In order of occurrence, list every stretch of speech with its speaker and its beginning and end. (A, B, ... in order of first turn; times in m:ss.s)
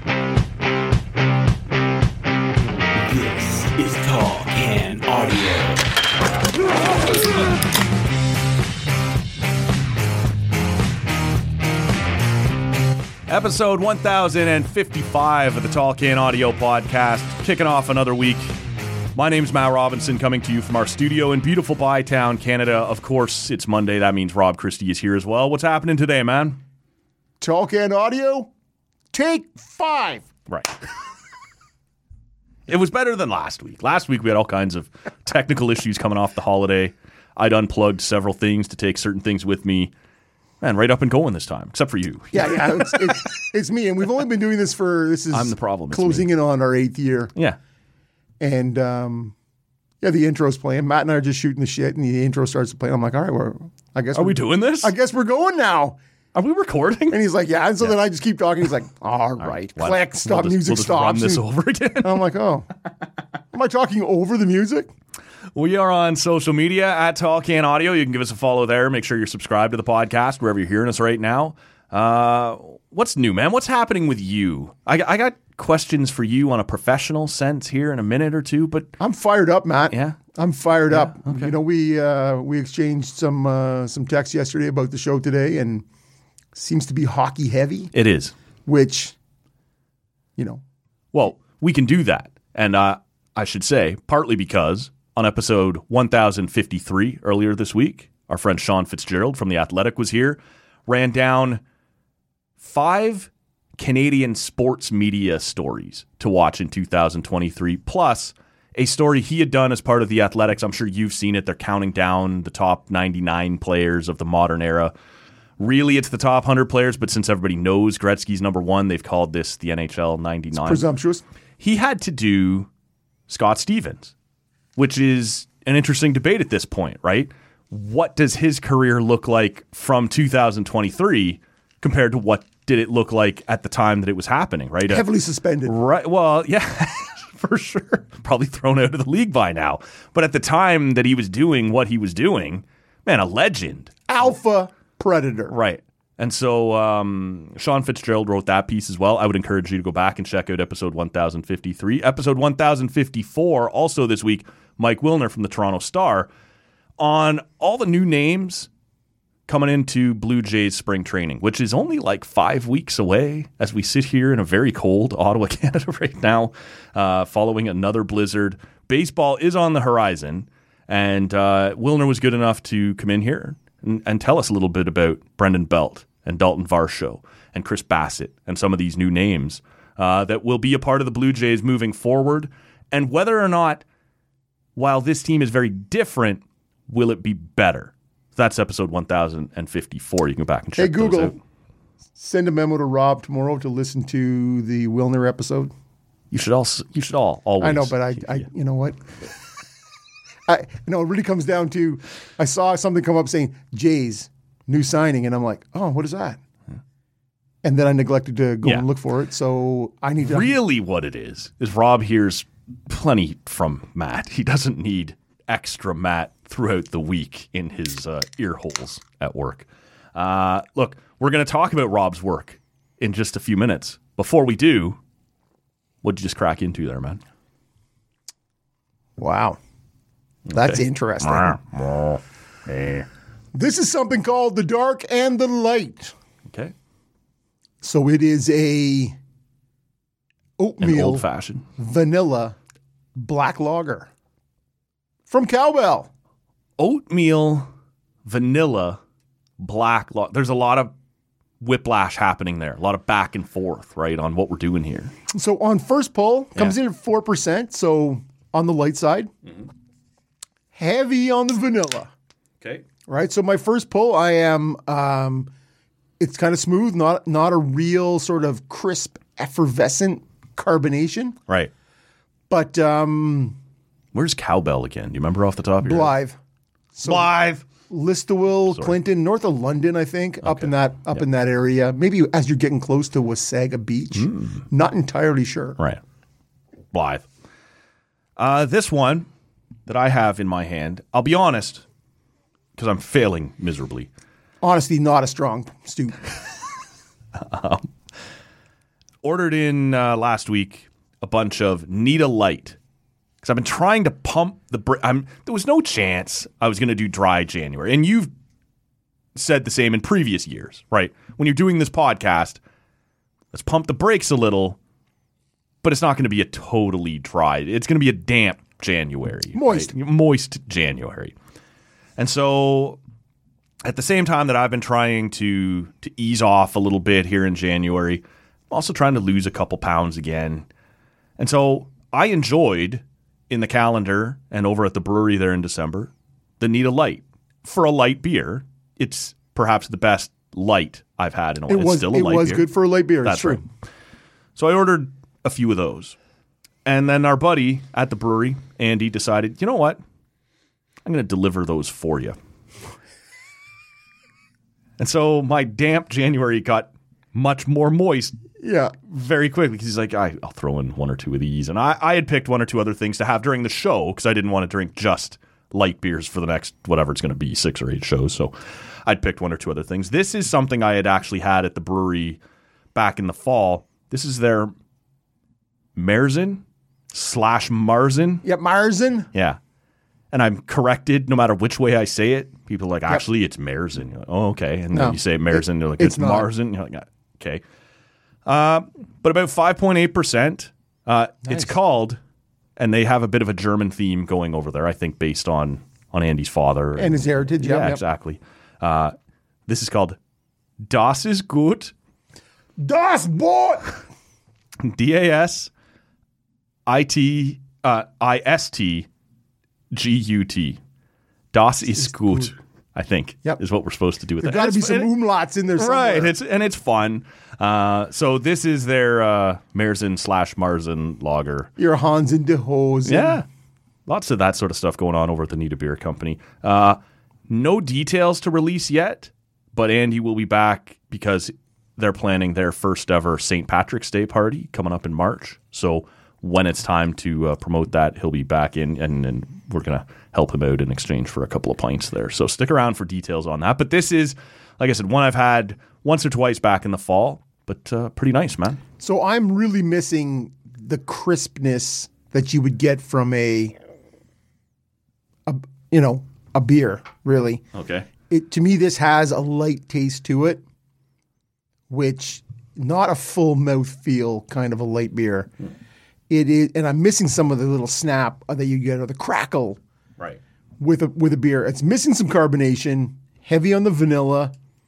0:03.0-0:05.8 A
0:13.3-0:18.5 B
0:19.1-0:26.6 B
0:27.4-0:28.5 C
0:29.1-0:30.3 C
0:30.5-0:30.7 B
0:32.7-0:39.9 B
0:40.6-0:43.1 B
0:42.3-0:47.3 C
0:45.3-0:46.3 B
0:48.4-0:49.3 C
0:50.0-0:56.0 C
0:54.1-0:54.9 B
0:56.3-0:57.2 B
0:57.1-1:01.4 C
0:59.4-1:02.2 B
1:02.0-1:02.7 C
1:03.5-1:04.9 C
1:05.5-1:18.9 B
1:19.0-1:25.8 C
1:19.9-1:20.2 B
1:20.9-1:21.5 B
1:26.5-1:27.9 C
1:27.9-1:28.3 B
1:28.6-1:29.1 C
1:30.4-1:30.6 C
1:31.1-1:41.6 B
1:42.6-1:54.9 B
1:55.6-2:00.8 B
2:00.5-2:01.2 C
2:01.6-2:02.7 B
2:03.3-2:04.1 B
2:04.8-2:15.1 B
2:14.9-2:15.8 C
2:15.6-2:23.9 B
2:24.1-2:25.5 C
2:25.5-2:36.3 B
2:37.0-2:38.7 B
2:39.5-3:03.8 B
3:04.8-3:11.4 B
3:10.8-3:11.4 C
3:12.2-3:15.7 C
3:16.3-3:18.4 B
3:17.6-3:19.0 C
3:20.5-3:26.4 C
3:27.6-3:30.5 C
3:30.2-3:45.0 B
3:46.0-3:47.2 B
3:49.2-3:49.6 C
3:50.5-3:53.0 B
3:50.5-3:51.6 C
3:53.5-3:56.1 C
3:57.8-3:59.2 C
4:00.6-4:01.2 C
4:00.8-4:01.6 B
4:01.8-4:02.6 C
4:03.2-4:04.1 C
4:05.3-4:06.1 C
4:06.8-4:07.7 B
4:08.2-4:09.0 B
4:09.6-4:10.9 B
4:11.6-4:15.1 B
4:15.3-4:19.3 C
4:20.7-4:22.1 C
4:22.6-4:22.8 B
4:23.1-4:25.5 C
4:26.2-4:31.4 C
4:32.5-4:33.6 C
4:34.1-4:36.1 B
4:35.8-4:36.4 C
4:36.9-4:45.8 C
4:37.0-4:37.6 B
4:40.4-4:40.7 B
4:44.1-4:44.6 B
4:46.9-4:47.3 B
4:48.4-4:49.3 B
4:49.9-4:51.8 B
4:52.8-4:54.1 B
4:54.6-4:56.2 C
4:57.4-4:57.9 B
4:59.2-5:02.8 B
5:03.4-5:08.3 B
5:09.3-5:12.6 B
5:13.5-5:14.8 B
5:15.8-5:21.3 B
5:19.5-5:19.9 C
5:22.2-5:23.0 B
5:23.8-5:30.7 B
5:31.4-5:42.7 B
5:41.7-5:43.6 C
5:43.2-5:43.6 B
5:44.6-5:46.2 B
5:46.8-5:50.0 B
5:51.0-5:52.4 B
5:55.0-5:58.4 B
5:58.6-5:58.9 C
5:59.0-6:08.5 B
6:09.0-6:12.4 B
6:12.9-6:14.7 B
6:16.0-6:18.4 B
6:18.4-6:19.3 C
6:19.3-6:19.6 B
6:20.3-6:27.6 B
6:24.9-6:26.5 C
6:28.4-6:32.2 B
6:31.5-6:31.7 C
6:32.8-6:39.1 B
6:37.0-6:38.0 C
6:39.7-6:40.2 B
6:40.8-6:41.9 B
6:42.8-6:44.0 C
6:44.8-6:45.7 B
6:46.8-6:49.1 B
6:49.9-6:50.8 B
6:51.5-6:55.1 B
6:51.9-6:52.5 C
6:54.4-6:56.3 C
6:55.7-7:01.7 B
7:01.8-7:03.4 C
7:03.0-7:03.4 B
7:04.0-7:28.8 B
7:29.0-7:33.7 C
7:35.4-7:37.6 C
7:37.7-7:38.1 B
7:38.3-7:40.6 C
7:41.9-7:45.5 C
7:46.3-7:49.8 C
7:50.8-7:54.5 C